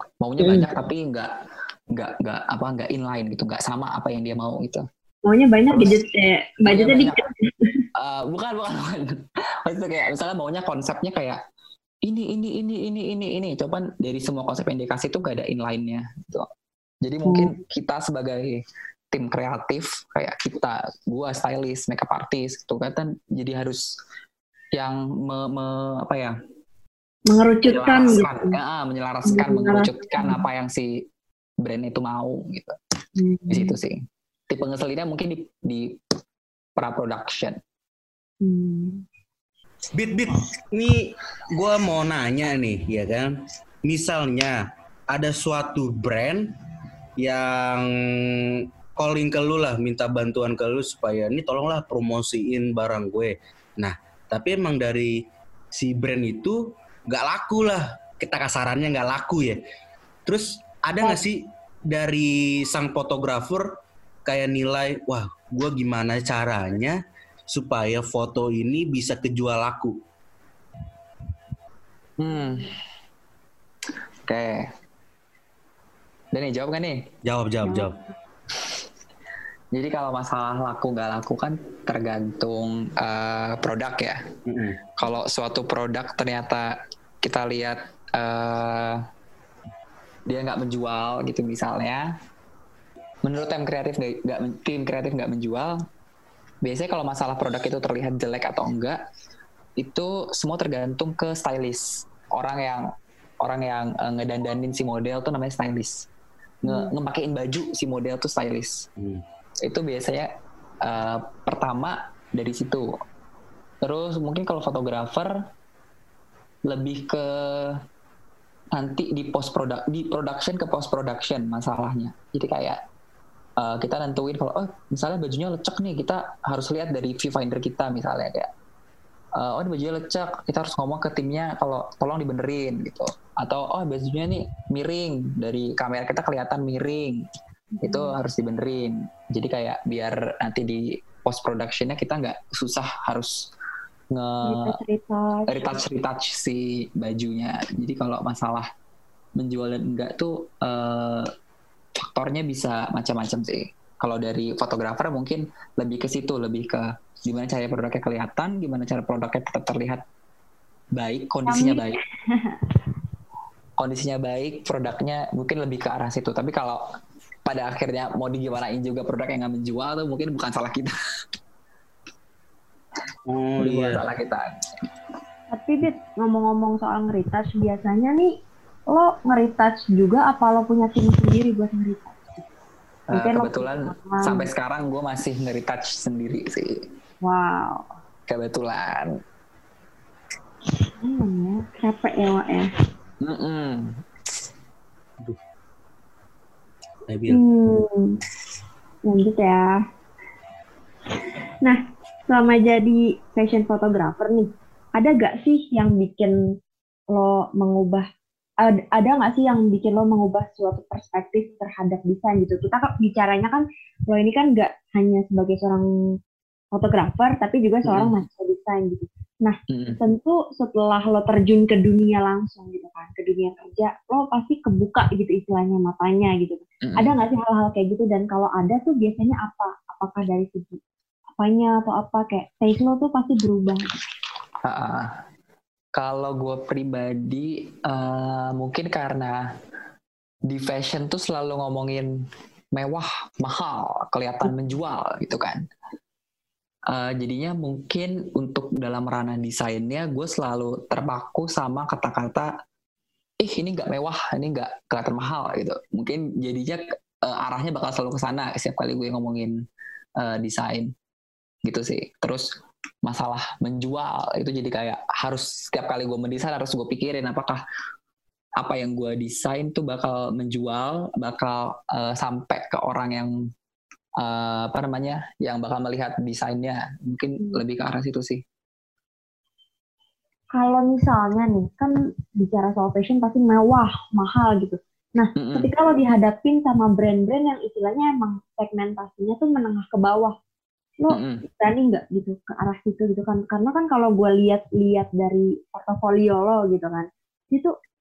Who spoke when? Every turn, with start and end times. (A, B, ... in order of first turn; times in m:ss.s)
0:00.2-0:01.3 A
0:00.4-0:00.7 B
0:01.9-0:04.8 A
0:05.2-0:07.8 B
0:05.7-0:06.0 A
0:06.6-0:07.2 A
0:08.0-0:11.4 A
0:12.0-0:16.5 A
0:17.0-0:23.8 A
0:17.2-0:17.6 B
0:24.7-0:26.4 A
0:27.3-0:28.6 B
0:27.6-0:31.0 A
0:29.2-0:30.4 B
0:31.6-0:32.8 A
0:33.2-0:33.8 B
0:33.5-0:36.0 A
0:36.8-0:37.6 A
0:38.4-0:39.0 B
0:39.9-0:46.5 C
0:47.2-0:55.2 C
0:55.7-0:59.6 C
1:00.2-1:03.7 C
1:04.2-1:07.0 C
1:07.5-1:10.0 C
1:12.2-1:12.7 A
1:14.3-1:14.7 A
1:16.3-1:17.1 A
1:17.2-1:18.0 C
1:19.7-1:24.2 A
1:24.4-1:24.8 C
1:25.0-1:29.0 A
1:30.3-1:32.1 A
1:33.2-1:35.8 A
1:36.6-1:39.0 A
1:39.8-1:42.9 A
1:43.4-1:46.1 A
1:46.6-1:48.8 A
1:46.6-1:46.9 B
1:49.0-1:49.2 C
1:49.6-1:52.9 A
1:53.8-1:55.4 A
1:56.7-1:57.8 A
1:58.7-2:02.8 A
2:03.6-2:08.5 A
2:09.4-2:17.2 A
2:17.7-2:18.2 B
2:17.8-2:23.5 A
2:24.1-2:24.8 A
2:24.4-2:25.6 B
2:25.5-2:28.7 A
2:29.4-2:31.3 A
2:32.0-2:40.0 A
2:40.9-2:42.0 A
2:41.5-2:42.6 B
2:43.8-2:46.9 A
2:47.4-2:50.9 A
2:53.3-2:54.0 C
2:53.6-2:54.5 A
2:55.5-2:58.3 B
2:58.9-3:02.4 B
3:03.1-3:06.9 A
3:03.1-3:04.5 B
3:07.2-3:07.9 B
3:08.3-3:09.2 A
3:11.0-3:12.7 B
3:13.2-3:14.0 A
3:17.1-3:17.4 C
3:17.3-3:18.2 B
3:19.0-3:19.8 B
3:21.6-3:26.4 B
3:27.1-3:28.1 B
3:28.6-3:35.8 B
3:36.7-3:50.8 B
3:37.8-3:38.2 A
3:39.7-3:40.0 A
3:46.8-3:47.2 A
3:51.3-3:53.9 B
3:54.6-3:55.2 A
3:56.0-3:59.5 A
4:00.5-4:05.6 A
4:06.9-4:12.5 A
4:13.4-4:19.5 A
4:20.2-4:20.9 A
4:21.6-4:22.5 A
4:23.0-4:27.6 A
4:28.6-4:33.3 A
4:34.2-4:38.4 A
4:40.5-4:50.3 B
4:45.4-4:45.7 A
4:51.0-4:57.7 B
4:51.1-4:51.4 A